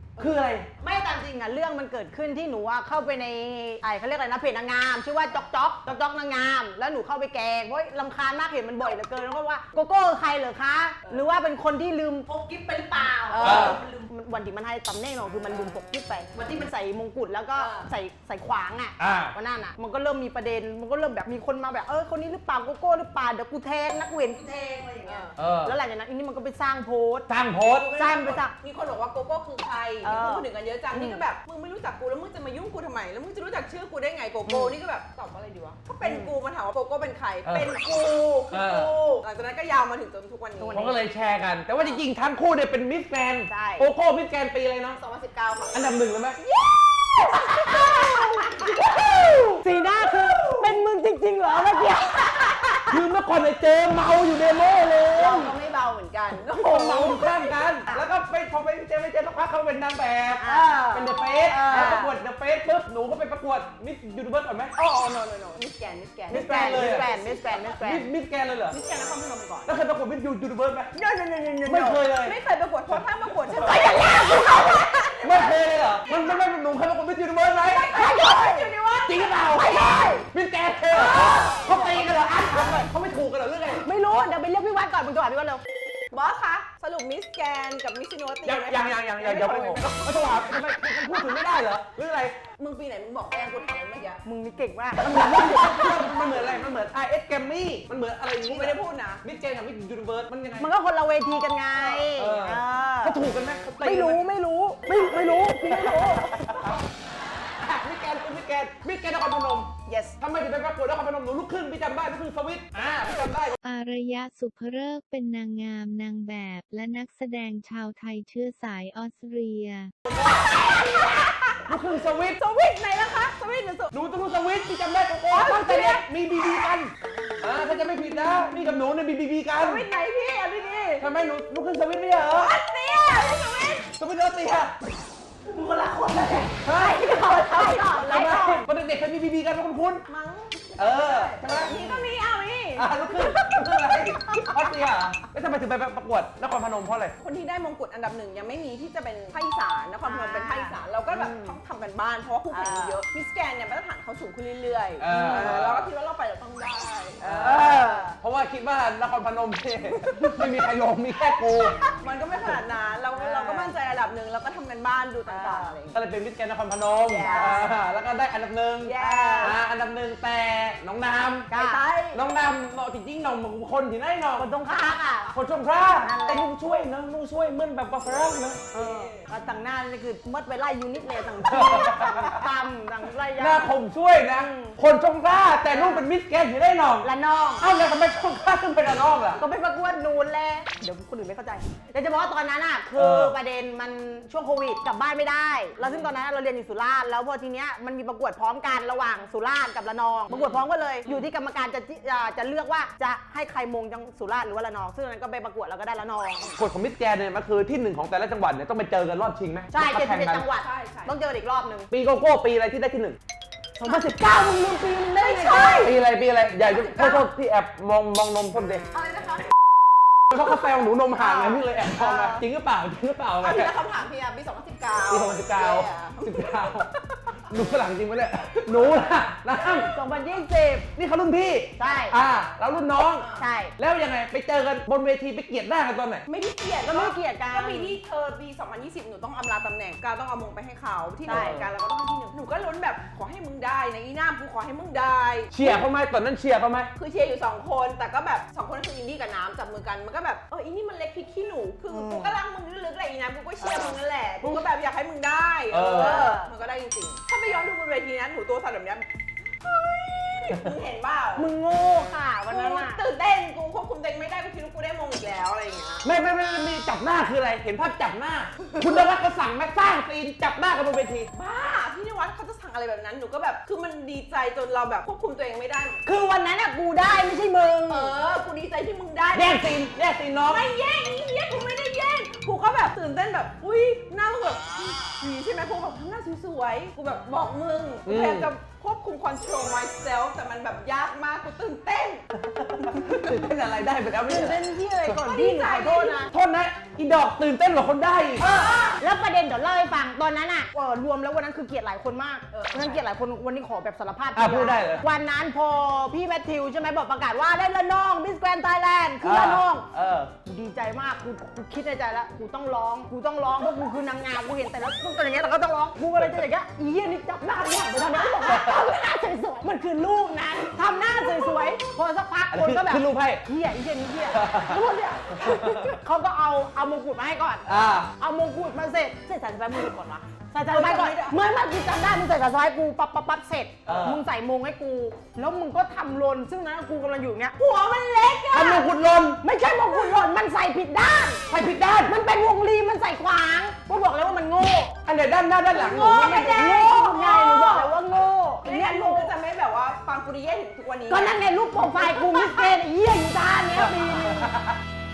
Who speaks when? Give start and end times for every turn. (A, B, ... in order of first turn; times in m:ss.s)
0:00.2-0:00.7 A
0:00.8-0:27.3 B
0:13.3-0:13.9 C
0:13.4-0:13.8 A
0:15.5-0:15.8 C
0:17.6-0:17.9 C
0:19.0-0:19.4 A
0:25.0-0:25.4 C
0:25.4-0:25.8 A
0:27.3-0:28.0 A
0:27.8-0:40.8 C
0:28.0-0:28.5 B
0:30.0-0:31.2 B
0:34.5-0:34.8 B
0:36.0-0:36.3 B
0:38.5-0:38.9 A
0:40.6-0:41.0 B
0:40.7-0:45.0 A
0:43.5-0:43.9 B
0:45.0-0:45.9 C
0:45.7-0:46.4 A
0:46.4-0:49.4 C
0:47.3-0:48.9 B
0:49.0-0:49.4 A
0:49.6-0:52.9 B
0:50.2-0:50.7 C
0:52.9-0:55.4 A
0:55.1-0:55.5 B
0:55.2-0:57.6 C
0:56.5-1:04.8 A
1:00.4-1:02.1 B
1:04.8-1:07.7 C
1:06.3-1:07.1 A
1:06.3-1:08.1 B
1:07.8-1:08.8 A
1:08.7-1:09.7 C
1:08.7-1:09.0 B
1:09.7-1:11.0 A
1:11.0-1:12.0 B
1:11.6-1:12.4 A
1:11.9-1:15.6 C
1:13.5-1:15.2 B
1:13.6-1:13.8 A
1:15.2-1:18.0 A
1:17.7-1:19.2 C
1:17.9-1:18.7 B
1:19.0-1:23.9 A
1:19.5-1:20.3 B
1:21.0-1:22.1 B
1:21.0-1:22.1 C
1:23.8-1:25.6 B
1:26.1-1:30.5 C
1:28.4-1:32.4 A
1:32.6-1:34.2 C
1:34.2-1:36.0 B
1:35.0-1:40.7 A
1:35.7-1:36.2 C
1:38.4-1:39.2 C
1:40.6-1:43.2 B
1:41.8-1:42.1 C
1:42.2-1:44.2 A
1:43.8-1:46.6 B
1:44.9-1:46.0 C
1:46.2-1:46.8 A
1:47.6-1:53.6 A
1:49.9-1:50.2 C
1:53.6-1:59.9 D
2:00.1-2:01.8 C
2:01.7-2:02.4 A
2:02.4-2:03.9 C
2:03.9-2:06.9 A
2:05.3-2:06.1 C
2:07.4-2:09.8 A
2:09.6-2:11.0 C
2:11.0-2:12.6 A
2:12.3-2:13.9 C
2:14.0-2:14.7 A
2:15.5-2:18.6 B
2:16.6-2:20.0 A
2:17.2-2:18.5 C
2:20.1-2:23.8 C
2:20.8-2:21.8 A
2:21.8-2:22.0 B
2:22.8-2:27.2 A
2:27.2-2:38.1 C
2:30.0-2:31.6 B
2:32.5-2:33.0 B
2:35.0-2:35.9 A
2:35.1-2:35.5 B
2:37.2-2:38.2 B
2:37.2-2:41.8 A
2:40.2-2:40.4 C
2:41.9-2:46.0 C
2:43.1-2:43.7 B
2:45.3-2:45.8 B
2:45.9-2:51.5 A
2:47.1-2:47.7 B
2:47.1-2:47.7 C
2:48.8-2:49.6 C
2:49.0-2:49.6 B
2:51.5-2:51.8 B
2:51.5-2:52.2 C
2:52.1-2:54.5 A
2:54.4-2:55.4 B
2:55.3-2:58.6 A
2:56.0-2:56.5 B
2:58.7-2:59.3 C
2:58.7-3:03.8 B
3:01.4-3:02.4 A
3:03.4-3:09.4 A
3:04.4-3:04.8 B
3:05.7-3:06.0 B
3:07.0-3:07.7 B
3:09.4-3:26.5 B
3:13.0-3:13.3 A
3:20.3-3:20.6 C
3:26.6-3:30.4 A
3:29.7-3:31.9 B
3:30.5-3:31.2 C
3:31.9-3:33.2 A
3:33.8-3:36.0 B
3:35.2-3:36.0 C
3:35.5-3:38.9 A
3:36.5-3:37.3 C
3:40.3-3:43.7 A
3:41.2-3:41.6 B
3:43.4-3:47.0 C
3:45.1-3:49.9 A
3:49.5-3:50.0 C
3:49.9-3:50.9 B
3:51.0-3:53.3 A
3:51.8-3:52.2 B
3:51.8-3:52.4 C
3:53.1-3:53.4 C
3:53.4-3:53.7 B
3:53.8-3:56.2 A
3:56.3-4:05.8 C
3:56.8-3:58.0 B
4:01.3-4:01.6 B
4:01.3-4:01.7 A
4:05.5-4:06.9 A
4:07.0-4:19.1 C
4:11.9-4:12.4 B
4:13.6-4:14.7 B
4:15.7-4:16.3 A
4:15.9-4:16.5 B
4:19.6-4:21.5 C
4:21.4-4:23.0 B
4:22.5-4:26.1 C
4:26.0-4:31.3 A
4:31.3-4:36.0 C
4:36.0-4:38.2 B
4:37.9-4:39.8 C
4:39.3-4:40.6 A
4:40.4-4:52.2 C
4:48.1-4:48.5 A
4:52.4-4:54.6 A
4:52.9-4:53.2 C
4:54.3-4:56.3 B
4:55.1-4:56.3 C
4:56.3-4:58.5 A
4:58.4-4:59.0 C
4:58.5-5:09.9 B
5:02.5-5:03.1 C
5:04.4-5:05.0 A
5:09.2-5:10.3 A
5:10.4-5:37.6 B
5:18.5-5:18.7 A
5:22.5-5:23.4 A
5:24.3-5:24.8 A
5:25.4-5:25.9 A
5:27.7-5:28.1 A
5:30.7-5:31.4 C
5:33.9-5:34.2 A
5:37.6-5:38.9 C
5:38.5-5:39.4 A
5:39.4-5:41.4 B
5:41.5-5:42.2 A
5:42.0-5:45.0 B
5:45.0-5:46.7 A
5:45.7-5:48.0 C
5:45.8-5:49.3 B
5:48.6-5:51.4 C
5:51.1-5:54.5 B
5:51.9-5:52.8 C
5:53.8-5:54.8 A